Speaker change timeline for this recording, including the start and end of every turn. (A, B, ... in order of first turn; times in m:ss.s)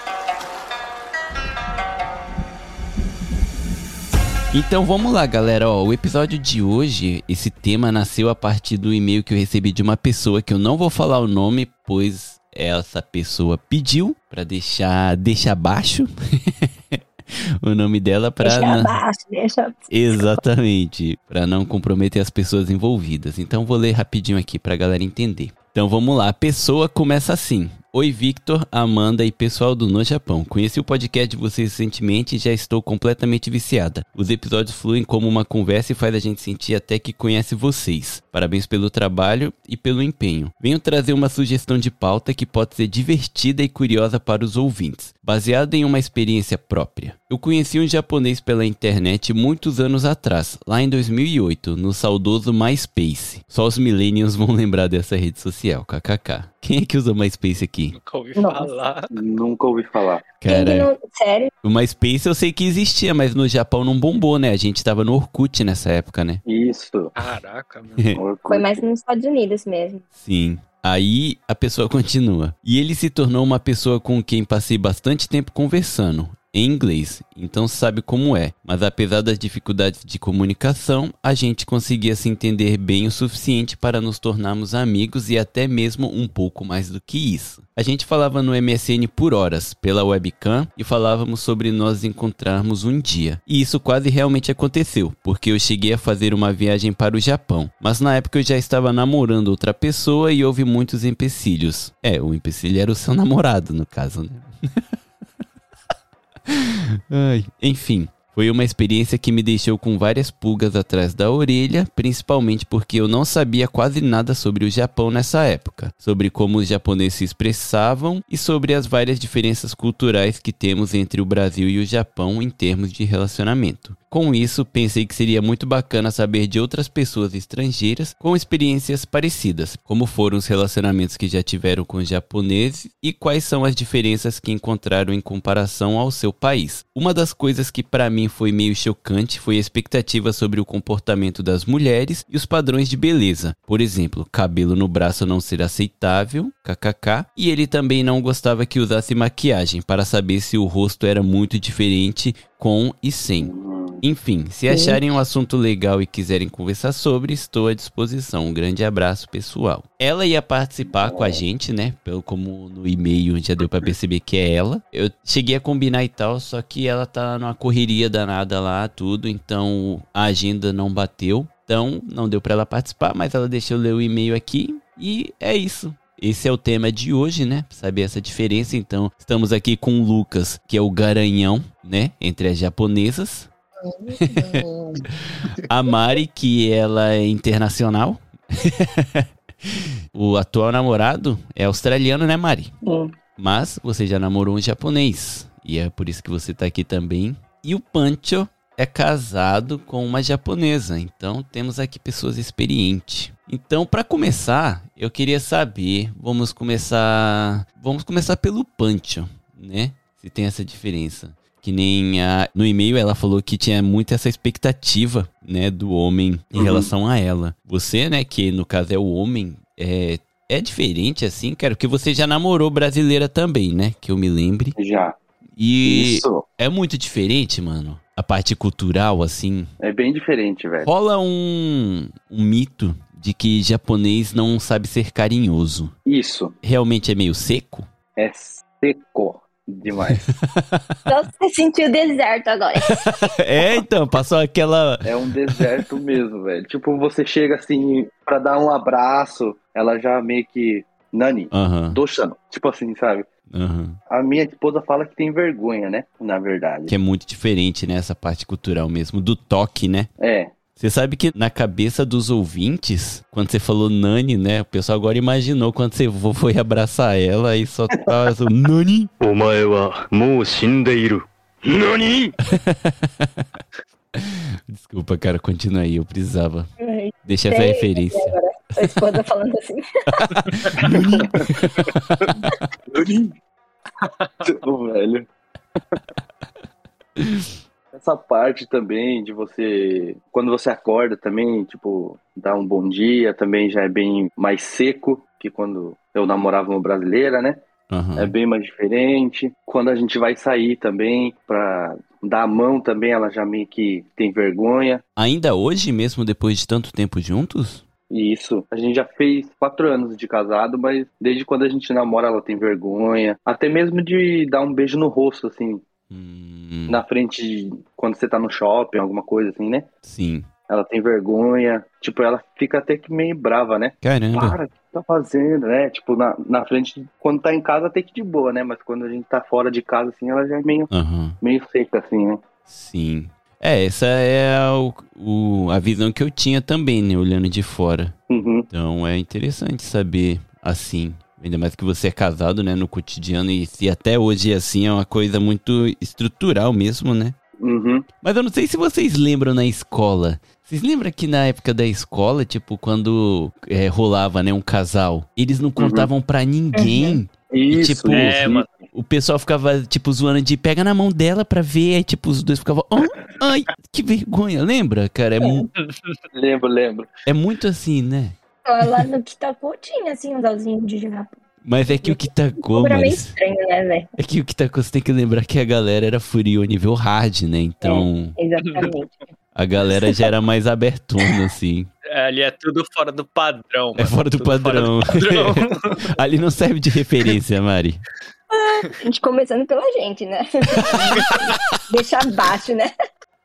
0:04.5-0:18.9 A
0:18.4-0:20.4 B
0:19.9-0:58.0 A
0:57.9-0:59.1 C
0:58.4-0:58.8 B
0:59.1-1:00.2 D
1:00.4-1:00.9 A
1:00.4-1:01.5 B
1:01.6-1:06.4 A
1:06.4-1:07.1 D
1:07.2-1:08.1 C
1:08.1-1:08.8 D
1:08.5-1:10.0 B
1:10.2-1:44.8 A
1:46.5-3:03.5 A
2:33.4-2:34.0 D
2:34.7-2:35.0 B
2:40.9-2:41.4 D
3:03.8-3:05.0 B
3:04.2-3:04.6 A
3:05.6-3:12.7 A
3:12.8-3:13.1 B
3:13.4-3:44.8 A
3:36.6-3:36.9 D
3:44.8-3:45.2 D
3:45.6-3:49.7 A
3:45.8-3:46.4 D
3:49.8-3:50.9 D
3:50.8-3:55.9 A
3:56.0-3:56.6 D
3:56.6-3:57.9 A
3:58.2-4:00.2 D
4:00.1-4:00.9 A
4:01.1-4:03.2 B
4:02.9-4:05.6 A
4:05.0-4:13.3 D
4:11.5-4:12.0 A
4:13.5-4:14.0 A
4:14.1-4:16.9 D
4:16.9-4:20.1 A
4:20.2-4:20.5 D
4:20.8-4:29.1 A
4:29.2-4:32.3 E
4:32.5-4:33.4 A
4:34.1-4:36.7 A
4:36.8-4:39.8 B
4:37.2-4:38.9 A
4:40.1-4:42.3 A
4:40.8-4:41.6 D
4:42.9-4:43.4 D
4:44.2-4:44.5 C
4:44.4-4:45.3 D
4:47.2-4:47.5 A
4:47.9-4:57.6 D
4:57.9-4:58.3 A
4:58.2-5:05.0 D
5:05.2-5:07.8 A
5:08.1-5:15.8 D
5:16.1-5:17.0 A
5:16.9-5:19.9 D
5:20.0-5:20.5 A
5:20.7-5:32.4 D
5:24.0-5:24.6 A
5:30.9-5:31.4 A
5:32.7-5:38.1 A
5:38.3-5:38.7 D
5:38.7-5:47.4 A
5:47.6-5:48.0 D
5:48.2-6:05.7 A
5:55.8-5:56.1 D
5:56.7-5:57.2 B
5:57.5-5:58.7 D
5:58.1-5:58.7 C
6:05.8-6:06.2 C
6:06.3-6:07.1 D
6:07.2-6:08.4 A
6:08.6-6:11.4 B
6:11.6-6:13.4 A
6:12.7-6:14.1 B
6:14.2-6:18.4 A
6:17.8-6:19.2 B
6:19.5-6:21.9 A
6:22.1-6:26.1 C
6:24.0-6:28.0 A
6:28.5-6:32.9 B
6:30.9-6:31.2 A